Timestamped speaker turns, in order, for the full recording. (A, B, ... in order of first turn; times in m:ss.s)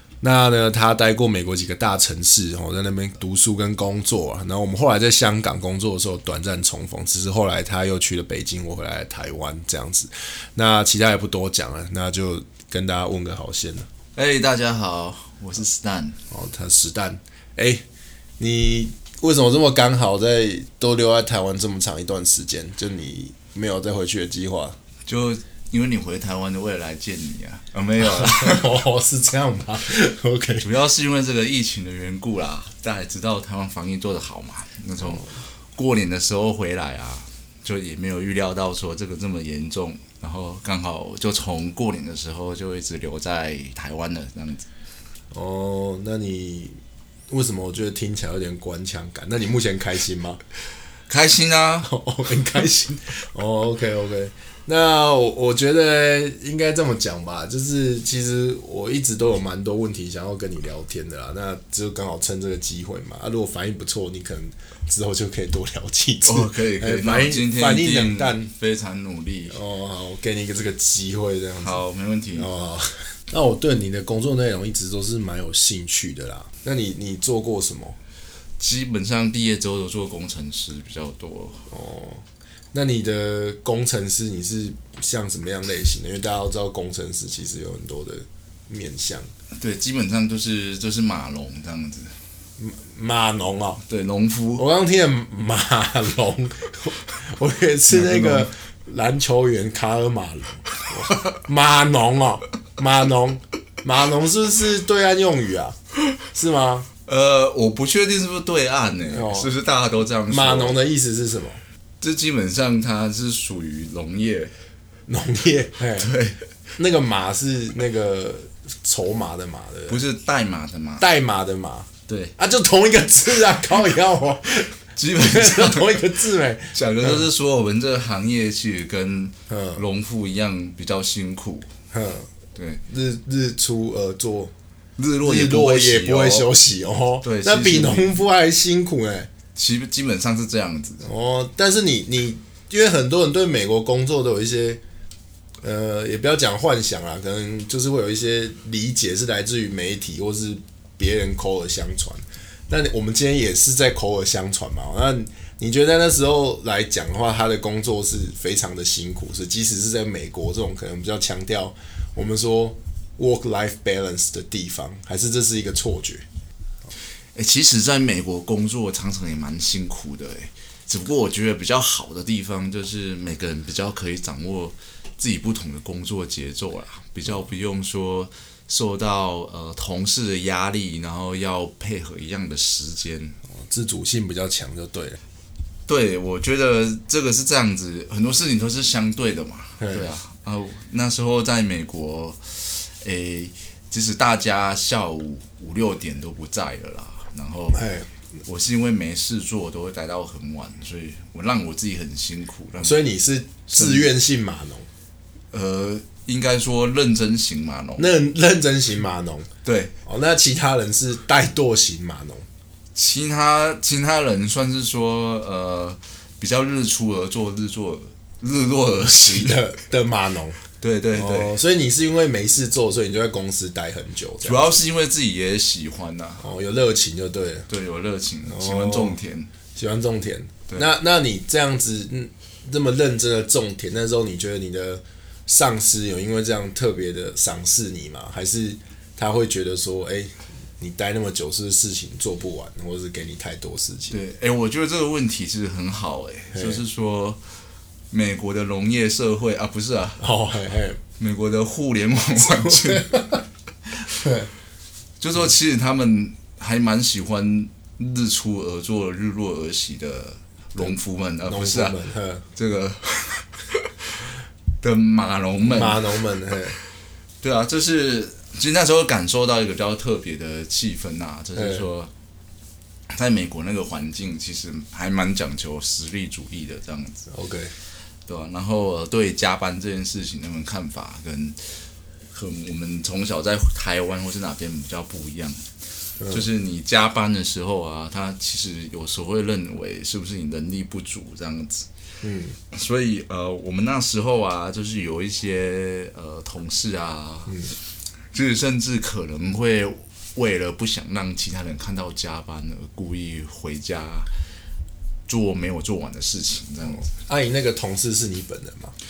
0:00.2-0:13.9 A
0:14.1-0:16.2 B
0:16.3-0:17.8 A
0:18.4-0:24.8 A
0:25.0-0:28.8 B
0:28.0-0:30.7 A
0:30.6-0:44.6 B
0:35.0-0:35.4 A
0:45.3-0:50.4 A
0:51.1-0:51.9 B
0:51.8-1:08.5 A
1:06.2-1:09.6 B
1:09.5-1:11.8 A
1:11.6-1:12.5 B
1:12.3-1:18.0 A
1:18.6-1:21.7 B
1:21.7-1:29.3 A
1:29.6-1:32.1 B
1:32.6-1:33.8 A
1:33.8-1:34.6 B
1:34.6-1:45.8 A
1:37.9-1:38.5 B
1:46.3-1:46.9 A
1:47.0-1:50.8 B
1:49.1-1:49.5 A
1:50.3-1:51.6 A
1:52.0-1:54.5 B
1:55.1-1:56.1 A
1:55.9-1:56.5 B
1:56.8-2:00.0 A
1:59.9-2:01.1 B
2:01.0-2:07.2 A
2:02.1-2:02.3 B
2:04.9-2:11.7 B
2:09.5-2:09.8 A
2:11.9-2:12.3 A
2:12.5-2:12.8 B
2:12.9-2:14.5 A
2:15.0-2:16.5 B
2:15.2-2:19.3 A
2:17.2-2:18.2 B
2:19.5-2:21.1 B
2:21.0-2:24.8 A
2:25.6-2:46.2 A
2:47.3-3:03.4 B
3:03.5-3:05.2 A
3:05.8-3:17.9 B
3:09.8-3:10.1 A
3:17.7-3:18.1 A
3:18.4-3:23.1 B
3:22.8-3:24.9 A
3:23.7-3:24.1 B
3:25.5-3:28.1 B
3:28.0-3:29.5 A
3:29.6-3:29.9 B
3:30.0-3:32.4 A
3:32.9-3:39.7 B
3:39.0-3:40.6 A
3:40.8-3:41.6 B
3:41.1-3:44.8 A
3:44.4-3:46.5 B
3:46.4-3:47.7 A
3:47.7-3:49.5 B
3:48.4-3:49.2 A
3:49.7-4:04.2 A
4:04.1-4:07.4 B
4:06.5-4:06.8 A
4:08.1-4:10.4 B
4:10.2-4:11.0 A
4:11.2-4:13.4 B
4:12.3-4:13.4 A
4:14.0-4:14.5 A
4:15.2-4:26.3 B
4:20.8-4:22.4 A
4:25.6-4:26.8 A
4:27.4-4:32.1 B
4:31.5-4:31.9 A
4:33.1-4:37.3 B
4:37.3-4:37.7 A
4:38.2-4:51.9 B
4:46.2-4:46.4 A
4:52.2-4:52.6 A
4:52.7-5:04.3 B
5:05.3-5:07.1 B
5:06.8-5:08.9 A